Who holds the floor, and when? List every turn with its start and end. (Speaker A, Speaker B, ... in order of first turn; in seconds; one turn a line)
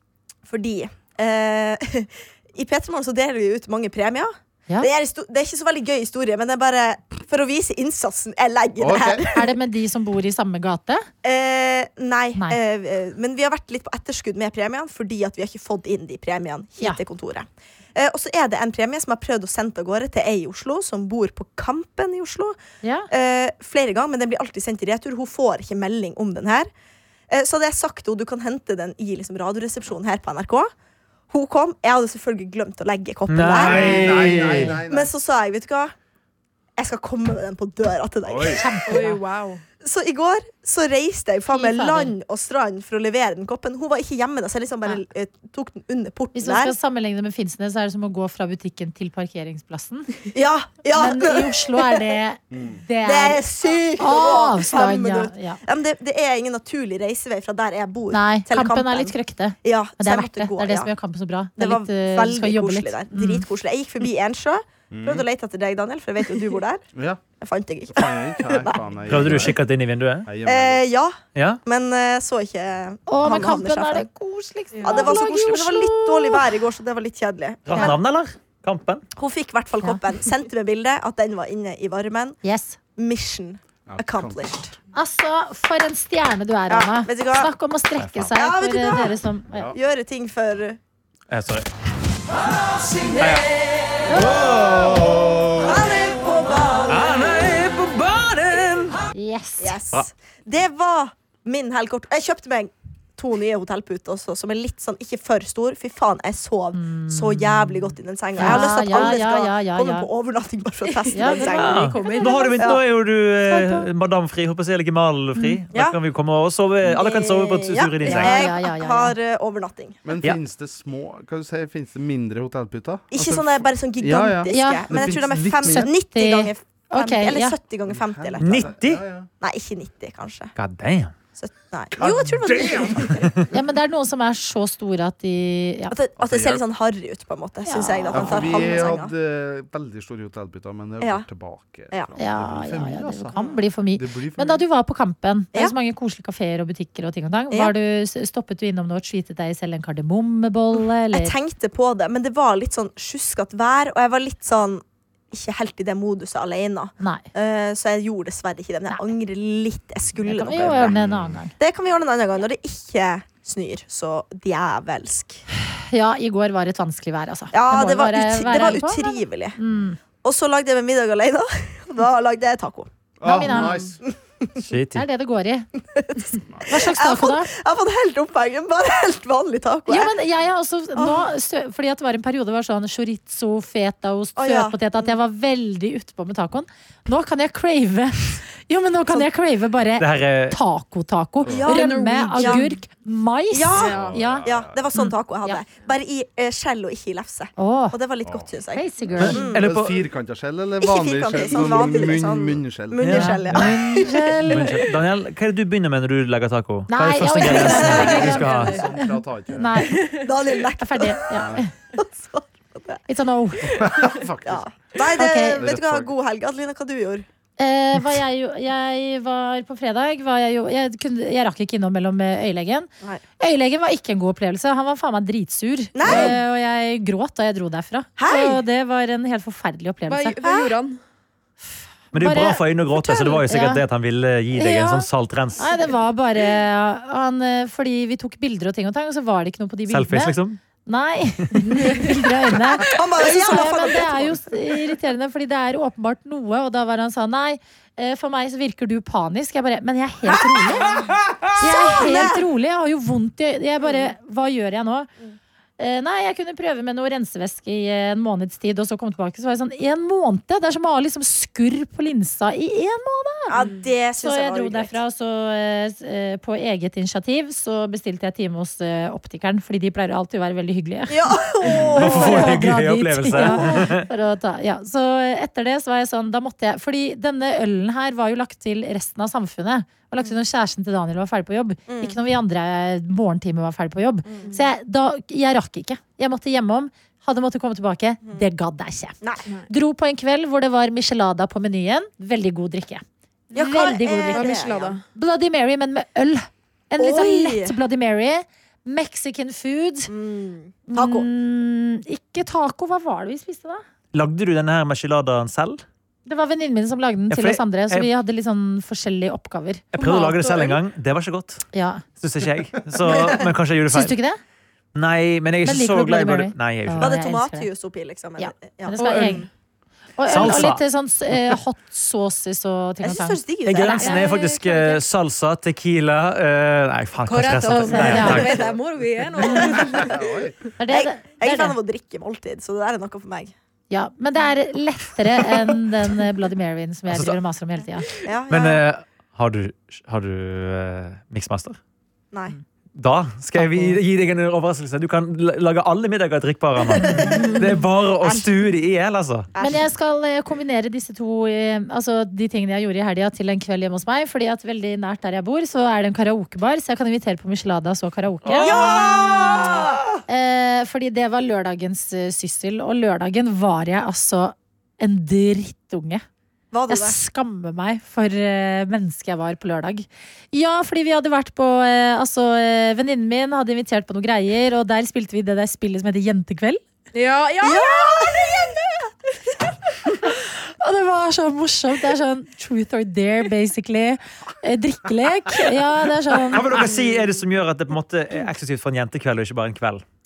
Speaker A: 0.5-9.5
Speaker B: 8.8-9.3
Speaker C: 9.3-11.1
Speaker A: 11.2-22.6
Speaker C: 22.8-23.1
Speaker A: 23.1-26.7
Speaker A: 27.3-30.7
Speaker A: 31.3-34.3
Speaker D: 33.3-34.8
Speaker B: 33.6-35.1
Speaker A: 34.9-35.9
Speaker A: 36.8-38.7
Speaker B: 38.2-38.6
Speaker C: 38.5-39.2
Speaker E: 38.9-39.6
Speaker A: 39.8-46.7
Speaker C: 41.5-42.1
Speaker C: 46.3-50.1
Speaker A: 50.3-52.0
Speaker C: 50.9-53.4
Speaker B: 52.5-52.8
Speaker A: 53.0-60.9
Speaker C: 54.0-55.6
Speaker C: 58.1-63.5
Speaker A: 61.6-66.8
Speaker B: 64.9-65.2
Speaker B: 66.9-67.2
Speaker A: 67.4-69.5
Speaker B: 67.9-69.6
Speaker D: 69.1-70.3
Speaker B: 70.2-70.8
Speaker A: 70.4-74.1
Speaker D: 71.3-71.6
Speaker C: 73.1-76.5
Speaker E: 74.7-75.1
Speaker A: 74.8-78.0
Speaker D: 77.7-79.0
Speaker A: 79.2-82.4
Speaker C: 82.4-82.8
Speaker A: 83.0-84.7
Speaker B: 83.9-84.5
Speaker C: 84.9-89.7
Speaker A: 86.7-87.5
Speaker D: 88.0-88.3
Speaker A: 88.3-89.1
Speaker B: 89.5-89.8
Speaker A: 89.7-90.8
Speaker D: 91.3-91.7
Speaker D: 93.1-93.5
Speaker D: 94.1-95.6
Speaker B: 94.5-95.7
Speaker A: 95.6-97.1
Speaker D: 96.9-99.0
Speaker C: 99.1-99.8
Speaker A: 99.6-111.8
Speaker C: 106.7-110.1
Speaker E: 111.0-112.5
Speaker C: 111.1-112.5
Speaker D: 111.5-118.5
Speaker C: 113.5-113.9
Speaker C: 115.3-115.6
Speaker A: 116.8-120.0
Speaker C: 118.0-119.2
Speaker B: 120.0-125.9
Speaker A: 123.1-128.7
Speaker C: 124.5-127.5
Speaker B: 127.9-129.3
Speaker D: 128.4-129.0
Speaker A: 129.4-130.5
Speaker D: 130.6-131.1
Speaker A: 131.4-133.2
Speaker B: 131.9-133.3
Speaker E: 132.1-133.0
Speaker C: 133.5-135.9
Speaker A: 135.9-139.1
Speaker B: 136.2-136.6
Speaker C: 137.7-138.7
Speaker B: 138.1-143.3
Speaker C: 142.2-151.3
Speaker B: 143.9-144.6
Speaker A: 151.1-160.9
Speaker C: 157.0-157.2
Speaker C: 160.2-161.5
Speaker B: 160.5-161.4
Speaker A: 161.6-165.4
Speaker C: 165.9-170.0
Speaker A: 167.5-169.6
Speaker A: 170.2-172.9
Speaker B: 173.2-174.0
Speaker C: 173.2-173.9
Speaker D: 174.6-175.0
Speaker C: 174.9-175.7
Speaker A: 175.9-180.1
Speaker C: 176.6-177.5
Speaker C: 179.9-195.6
Speaker A: 181.0-181.3
Speaker A: 184.4-185.1
Speaker D: 190.0-190.6
Speaker A: 191.5-192.7
Speaker E: 191.7-192.6
Speaker A: 193.5-199.6
Speaker B: 193.7-194.9
Speaker C: 197.6-198.0
Speaker B: 198.2-198.5
Speaker C: 198.7-199.4
Speaker D: 199.2-200.0
Speaker B: 199.5-203.0
Speaker A: 200.8-204.4
Speaker D: 203.0-203.7
Speaker C: 203.1-204.8
Speaker D: 204.4-208.8
Speaker C: 206.9-210.1
Speaker A: 207.5-208.3
Speaker E: 207.7-208.8
Speaker B: 207.8-209.7
Speaker E: 209.9-210.3
Speaker A: 210.2-211.3
Speaker C: 210.8-211.7
Speaker B: 211.3-211.6
Speaker A: 211.9-213.0
Speaker C: 213.1-213.9
Speaker B: 213.7-214.9
Speaker A: 214.4-217.2
Speaker C: 215.1-215.6
Speaker B: 215.4-216.1
Speaker C: 217.6-222.9
Speaker C: 223.4-230.4
Speaker A: 225.9-226.4
Speaker A: 228.2-228.6
Speaker E: 230.1-231.0
Speaker A: 230.4-230.7
Speaker C: 232.1-232.6
Speaker D: 232.1-235.7
Speaker A: 233.1-233.4
Speaker C: 233.4-233.8
Speaker C: 234.5-250.9
Speaker D: 239.9-240.6
Speaker E: 241.6-242.2
Speaker A: 242.8-244.4
Speaker B: 251.0-251.4
Speaker A: 251.4-252.4
Speaker C: 251.6-255.1
Speaker C: 255.8-263.5
Speaker A: 263.5-264.9
Speaker E: 263.6-263.9
Speaker C: 264.2-271.2
Speaker A: 271.1-272.6
Speaker C: 271.9-289.1
Speaker D: 271.9-274.1
Speaker A: 281.9-282.2
Speaker A: 284.2-284.5
Speaker C: 289.7-300.1
Speaker A: 293.5-295.0
Speaker E: 294.3-295.0
Speaker A: 297.0-297.7
Speaker A: 300.1-301.3
Speaker C: 300.9-303.8
Speaker D: 304.1-305.8
Speaker C: 306.2-310.8
Speaker D: 307.3-308.1
Speaker D: 309.9-311.6
Speaker C: 311.7-312.0
Speaker D: 312.2-314.1
Speaker C: 313.9-314.4
Speaker D: 314.9-317.1
Speaker C: 315.6-317.7
Speaker A: 317.0-319.4
Speaker C: 318.4-319.5
Speaker E: 318.9-319.4
Speaker C: 320.2-325.0
Speaker D: 320.3-320.8
Speaker A: 323.0-324.4
Speaker D: 323.6-328.6
Speaker E: 327.2-330.2
Speaker C: 327.7-328.5
Speaker B: 330.0-330.6
Speaker C: 330.8-331.8
Speaker A: 330.9-333.5
Speaker C: 333.9-338.1
Speaker D: 337.1-337.4
Speaker A: 338.2-338.8
Speaker D: 338.5-341.8
Speaker D: 342.9-349.5
Speaker C: 343.5-344.0
Speaker A: 347.0-347.7
Speaker A: 349.5-349.9
Speaker C: 349.6-358.8
Speaker D: 358.4-359.0
Speaker A: 358.6-360.0
Speaker C: 360.3-366.2
Speaker A: 366.7-367.1
Speaker C: 366.9-376.8
Speaker E: 377.1-378.6
Speaker A: 377.6-378.8
Speaker C: 380.8-386.8
Speaker D: 386.5-390.0